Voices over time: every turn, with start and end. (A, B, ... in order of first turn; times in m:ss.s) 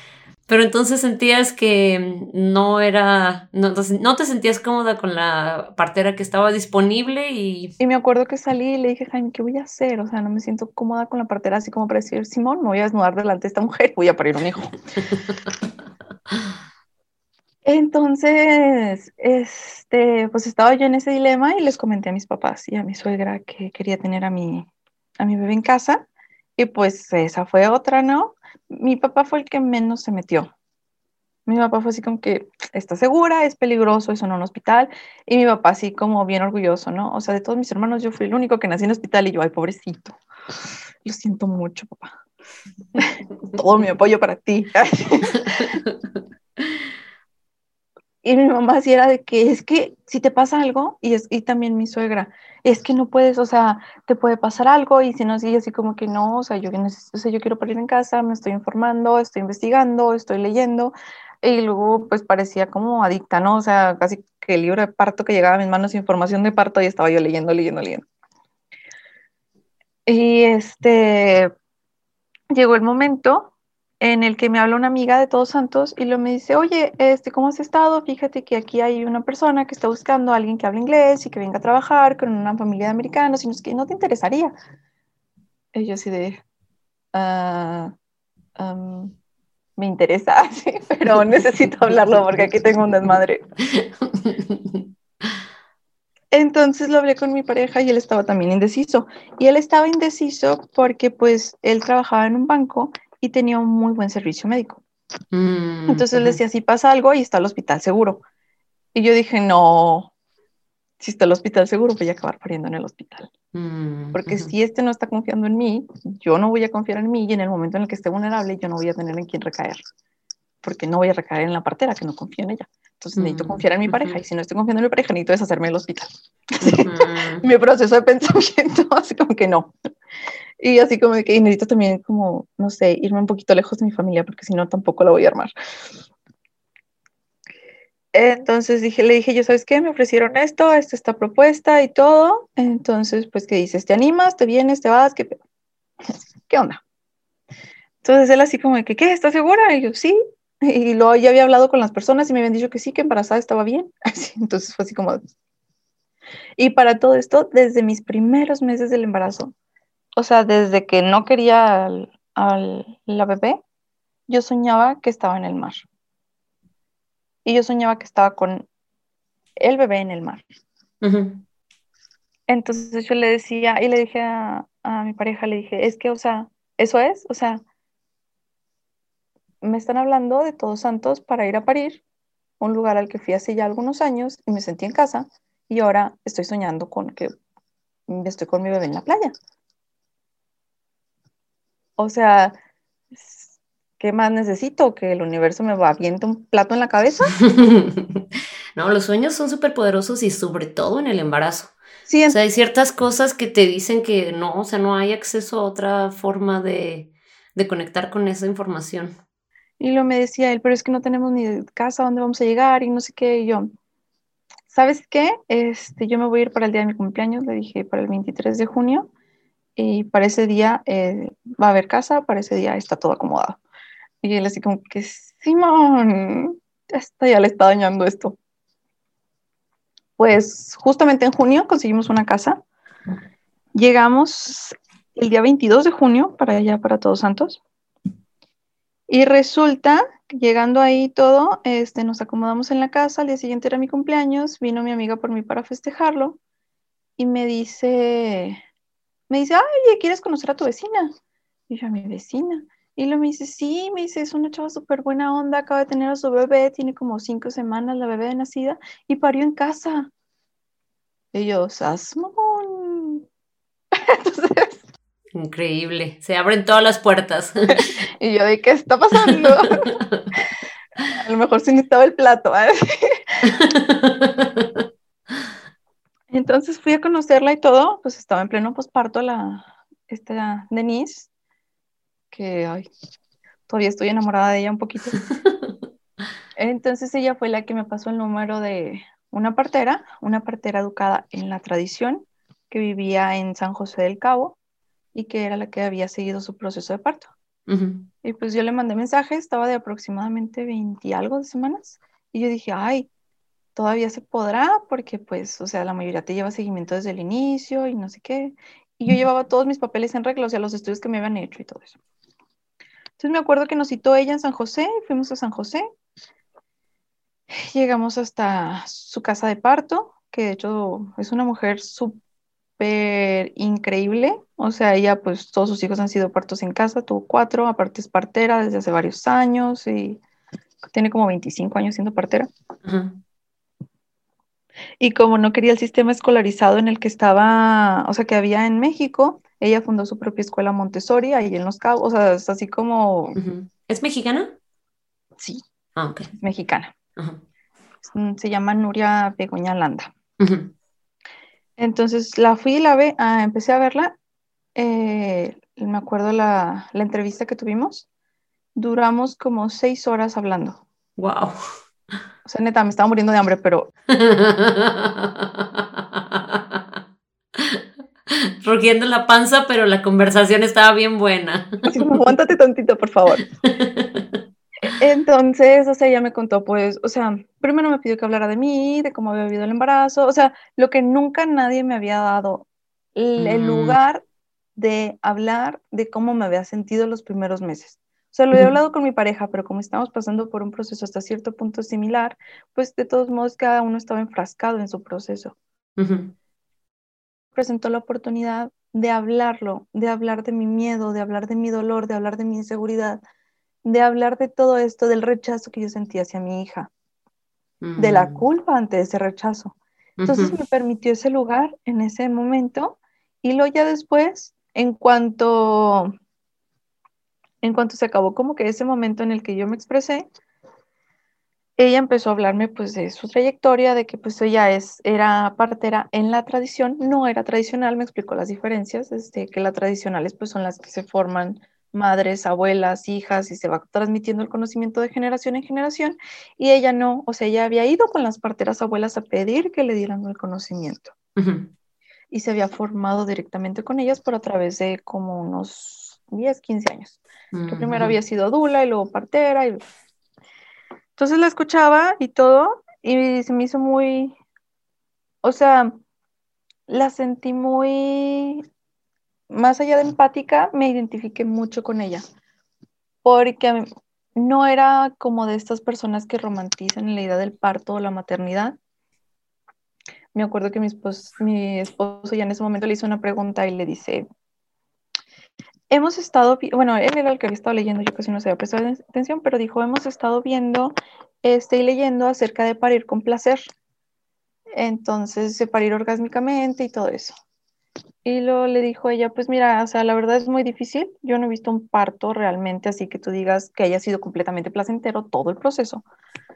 0:00.5-0:07.7 A
0:07.8-0:14.7 B
0:17.6-0:24.7 B
0:25.2-0:26.0 B
0:26.6-0:30.5 B
0:31.4-0:40.2 B
0:41.0-0:42.1 B
0:43.0-0:45.8 B
0:45.5-0:45.9 A
0:48.2-1:08.0 B
1:10.0-1:11.5 B
1:12.5-1:24.5 B
1:25.7-1:26.4 B
1:27.1-1:27.9 B
1:28.6-1:29.1 B
1:29.8-1:33.4 B
1:33.7-1:34.9 A
1:36.3-1:44.8 B
1:45.3-1:46.4 A
1:45.9-1:48.2 B
1:48.9-1:50.1 B
1:51.0-1:53.3 B
1:53.5-1:54.5 A
1:54.1-1:59.8 B
2:00.6-2:09.7 B
2:03.2-2:04.2 A
2:06.6-2:07.4 A
2:10.6-2:15.5 B
2:18.1-2:25.4 B
2:26.5-2:26.8 B
2:28.0-2:35.2 B
2:36.6-2:39.5 B
2:40.2-2:43.6 B
2:44.3-2:45.8 B
2:47.4-2:48.7 B
2:49.6-2:50.4 B
2:51.0-2:51.4 A
2:52.5-2:57.6 B
2:59.6-3:02.0 B
3:02.6-3:07.3 B
3:08.1-3:09.3 B
3:12.0-3:12.6 B
3:13.1-3:13.5 B
3:14.0-3:17.3 B
3:17.4-3:21.7 A
3:22.1-3:22.4 B
3:22.3-3:29.2 A
3:29.8-3:33.7 B
3:34.7-3:39.1 B
3:39.8-3:43.6 B
3:44.2-3:48.4 B
3:50.2-3:52.6 B
3:53.7-3:57.6 B
3:59.1-4:06.4 B
4:07.2-4:08.6 B
4:09.3-4:11.1 B
4:11.7-4:20.1 B
4:21.3-4:23.2 B
4:23.9-4:24.8 B
4:25.3-4:27.9 A
4:27.7-4:30.0 B
4:29.2-4:30.3 A
4:31.1-4:33.4 B
4:33.4-4:34.8 A
4:36.3-4:41.3 B
4:42.3-4:42.9 B
4:43.7-4:45.2 B
4:45.4-4:45.7 A
4:46.6-4:54.6 B
4:55.1-4:57.3 B
4:57.7-4:58.1 A
4:58.2-5:03.1 B
5:03.7-5:11.9 B
5:13.2-5:15.8 B
5:17.5-5:22.2 B
5:22.8-5:30.2 B
5:30.8-5:32.5 B
5:32.8-5:33.2 A
5:35.0-5:43.4 B
5:43.4-5:44.5 A
5:46.0-5:46.3 A
5:46.4-5:46.9 B
5:47.2-5:47.4 A
5:48.0-5:50.1 B
5:50.4-5:50.7 A
5:51.8-5:54.2 B
5:54.8-5:58.1 B
5:58.8-6:00.8 B
6:01.2-6:01.6 A
6:02.4-6:03.9 B
6:04.1-6:07.0 A
6:07.6-6:12.1 A
6:11.9-6:13.4 B
6:13.5-6:14.4 A
6:14.8-6:24.2 B
6:23.4-6:24.0 A
6:24.8-6:35.6 B
6:36.0-6:36.3 A
6:37.5-6:43.2 B
6:43.8-6:46.9 B
6:47.8-6:48.4 A
6:48.0-6:56.1 B
6:50.2-6:50.6 A
6:57.6-7:00.2 B
7:01.8-7:21.1 B
7:21.4-7:21.7 A
7:22.3-7:29.8 B
7:27.5-7:28.1 A
7:31.2-7:34.4 B
7:35.4-7:36.0 B
7:36.9-7:38.6 B
7:39.5-7:42.2 B
7:43.2-7:48.8 B
7:50.3-7:54.2 B
7:55.9-8:03.6 B
8:04.8-8:07.3 B
8:08.2-8:16.0 B